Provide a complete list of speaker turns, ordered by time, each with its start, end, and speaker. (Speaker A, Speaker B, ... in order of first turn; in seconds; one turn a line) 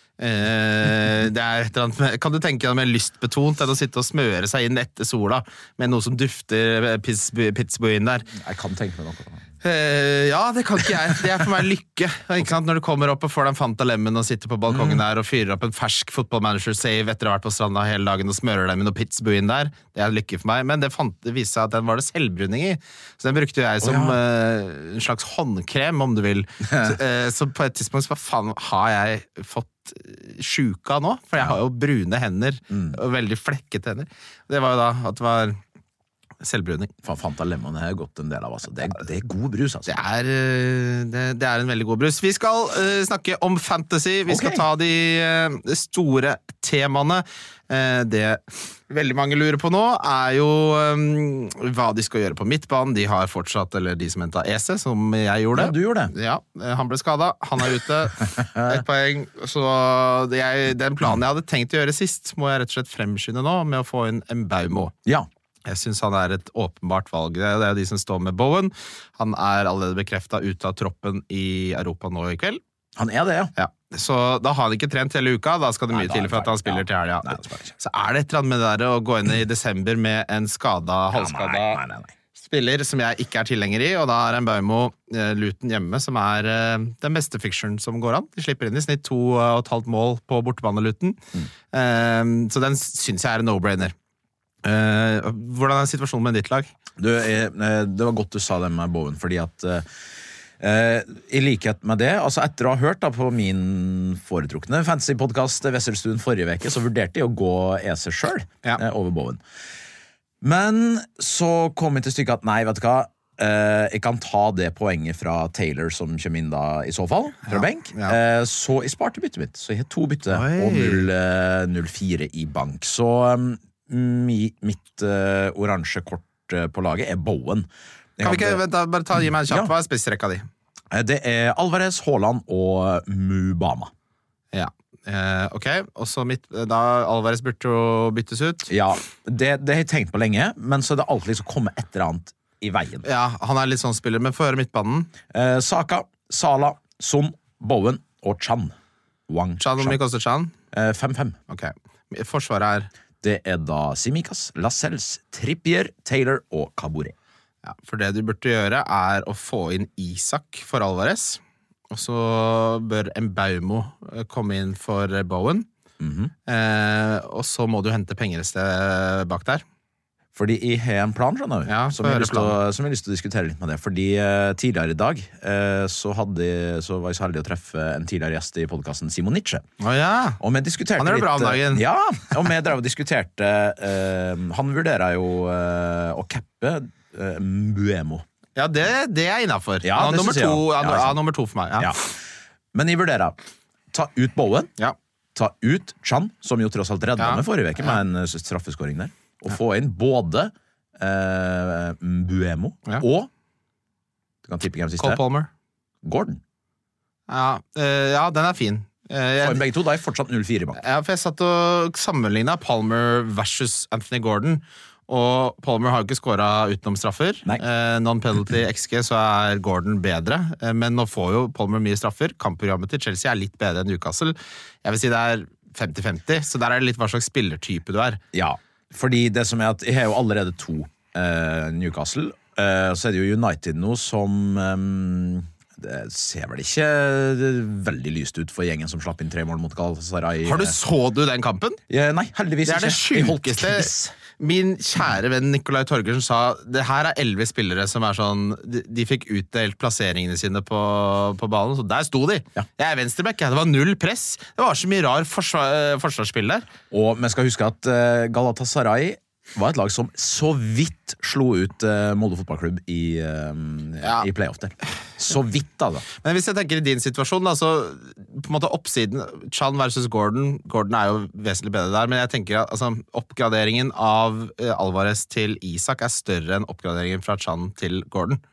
Speaker A: 0.2-8.3
Speaker B: 8.3-9.4
Speaker A: 9.6-35.6
Speaker B: 14.7-15.0
Speaker B: 23.8-24.2
Speaker B: 26.6-26.9
Speaker B: 32.7-33.0
Speaker A: 36.4-36.9
Speaker B: 37.0-39.9
Speaker A: 39.9-64.9
Speaker B: 44.3-44.6
Speaker B: 55.5-56.1
Speaker B: 58.2-58.8
Speaker A: 65.7-72.6
Speaker B: 73.0-73.5
Speaker A: 73.5-81.8
Speaker B: 75.9-77.7
Speaker B: 81.1-82.1
Speaker A: 82.3-91.2
Speaker A: 91.7-93.9
Speaker A: 94.6-96.7
Speaker B: 97.0-99.8
Speaker B: 100.6-109.4
Speaker B: 110.4-128.6
Speaker A: 117.5-118.2
Speaker A: 120.3-121.1
Speaker A: 128.2-130.4
Speaker B: 129.2-129.7
Speaker B: 130.9-133.9
Speaker A: 134.5-138.7
Speaker B: 138.7-143.1
Speaker A: 143.0-145.1
Speaker B: 145.3-148.7
Speaker B: 149.3-150.0
Speaker A: 149.6-150.5
Speaker B: 150.7-151.4
Speaker A: 151.5-152.9
Speaker B: 153.2-157.1
Speaker A: 157.6-165.7
Speaker B: 166.0-166.3
Speaker A: 166.5-169.6
Speaker B: 170.3-179.7
Speaker A: 171.7-172.6
Speaker A: 179.8-180.4
Speaker B: 180.4-188.2
Speaker A: 181.0-181.8
Speaker A: 188.6-191.9
Speaker B: 189.8-191.2
Speaker B: 191.8-192.1
Speaker B: 192.7-193.4
Speaker B: 193.9-194.7
Speaker B: 195.3-203.3
Speaker A: 197.2-198.0
Speaker B: 204.4-205.2
Speaker A: 205.0-205.5
Speaker B: 206.0-206.4
Speaker A: 207.3-209.6
Speaker B: 209.4-210.8
Speaker A: 210.8-228.2
Speaker B: 228.3-240.8
Speaker A: 240.4-241.8
Speaker B: 241.9-244.1
Speaker A: 242.6-256.7
Speaker B: 256.9-266.0
Speaker A: 264.0-264.3
Speaker A: 266.1-278.4